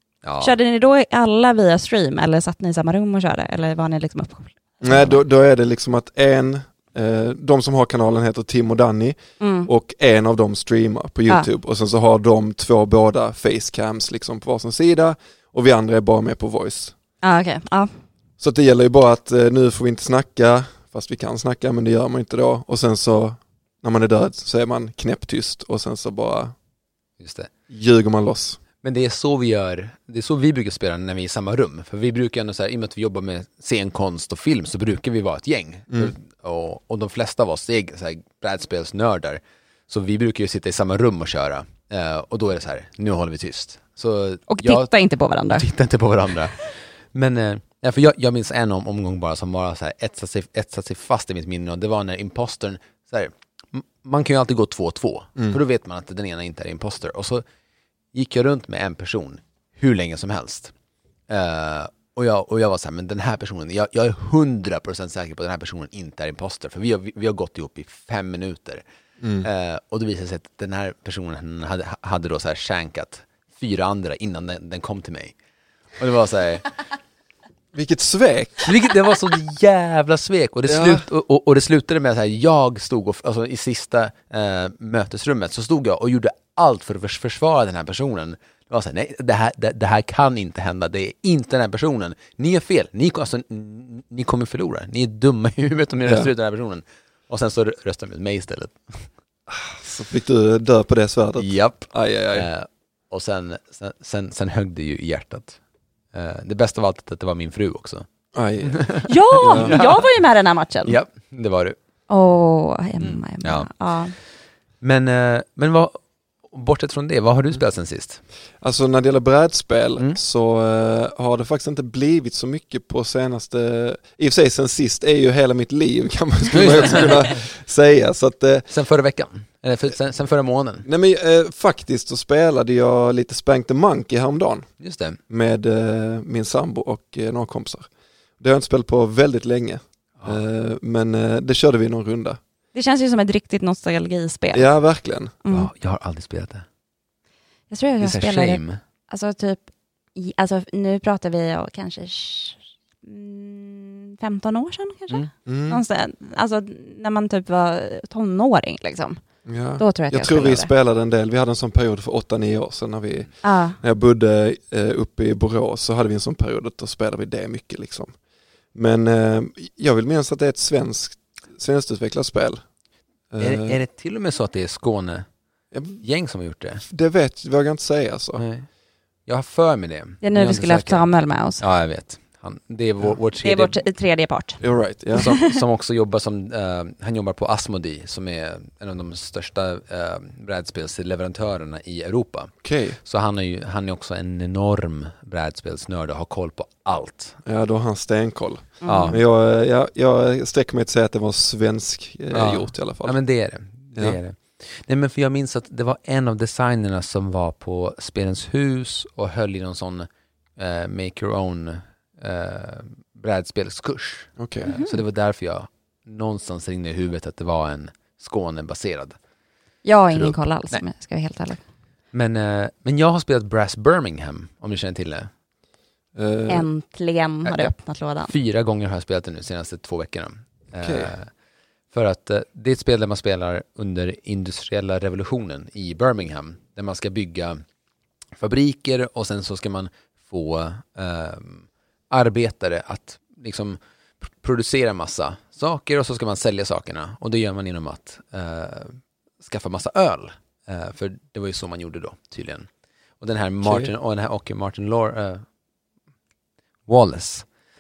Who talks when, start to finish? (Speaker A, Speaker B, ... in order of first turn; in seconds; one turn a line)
Speaker A: 0.2-0.5
Speaker B: 0.4-5.2
Speaker C: 4.8-16.9
Speaker B: 9.4-9.7
Speaker B: 17.2-17.9
Speaker C: 18.4-26.5
Speaker A: 27.2-27.5
Speaker C: 27.7-28.6
Speaker A: 28.8-44.9
Speaker C: 35.9-36.1
Speaker B: 44.5-45.6
Speaker A: 45.5-57.4
Speaker A: 58.1-60.7
Speaker A: 61.3-68.8
Speaker C: 69.2-69.5
Speaker A: 69.4-75.4
Speaker A: 76.0-76.8
Speaker C: 77.7-78.7
Speaker A: 78.7-99.1
Speaker C: 80.7-81.0
Speaker C: 96.1-96.3
Speaker C: 99.5-102.5
Speaker A: 101.4-105.6
Speaker A: 106.1-108.1
Speaker C: 108.3-109.8
Speaker A: 108.6-110.0
Speaker B: 109.1-111.0
Speaker A: 110.8-111.8
Speaker B: 112.1-114.2
Speaker A: 113.0-113.7
Speaker A: 114.8-118.2
Speaker C: 118.6-128.7
Speaker A: 126.5-127.4
Speaker A: 128.7-130.9
Speaker C: 130.8-134.7
Speaker A: 134.8-135.2
Speaker C: 135.3-137.9
Speaker C: 138.4-142.4
Speaker B: 142.7-144.7
Speaker C: 144.5-145.4
Speaker B: 145.4-145.7
Speaker A: 145.5-146.7
Speaker B: 147.7-159.2
Speaker A: 148.0-148.8
Speaker C: 155.5-155.8
Speaker C: 159.5-168.1
Speaker B: 159.8-160.7
Speaker B: 163.4-163.8
Speaker C: 168.7-172.6
Speaker C: 173.3-173.8
Speaker A: 173.4-175.3
Speaker C: 175.7-176.0
Speaker A: 176.0-176.8
Speaker C: 176.9-178.4
Speaker A: 178.4-178.7
Speaker A: 179.3-183.8
Speaker B: 180.2-181.6
Speaker B: 183.4-184.6
Speaker C: 184.6-185.4
Speaker B: 185.2-185.5
Speaker A: 185.2-197.4
Speaker C: 192.6-193.0
Speaker C: 197.4-203.2
Speaker B: 198.8-199.2
Speaker A: 198.9-199.2
Speaker A: 202.3-219.2
Speaker C: 214.4-214.7
Speaker B: 214.7-215.0
Speaker B: 219.8-221.6
Speaker A: 220.1-220.8
Speaker A: 222.1-225.3
Speaker C: 226.2-226.7
Speaker B: 226.5-228.3
Speaker A: 227.4-227.7
Speaker A: 228.3-231.3
Speaker C: 230.8-231.1
Speaker A: 231.9-237.6
Speaker A: 238.4-252.7
Speaker A: 253.2-255.4
Speaker C: 253.6-253.9
Speaker A: 256.9-257.5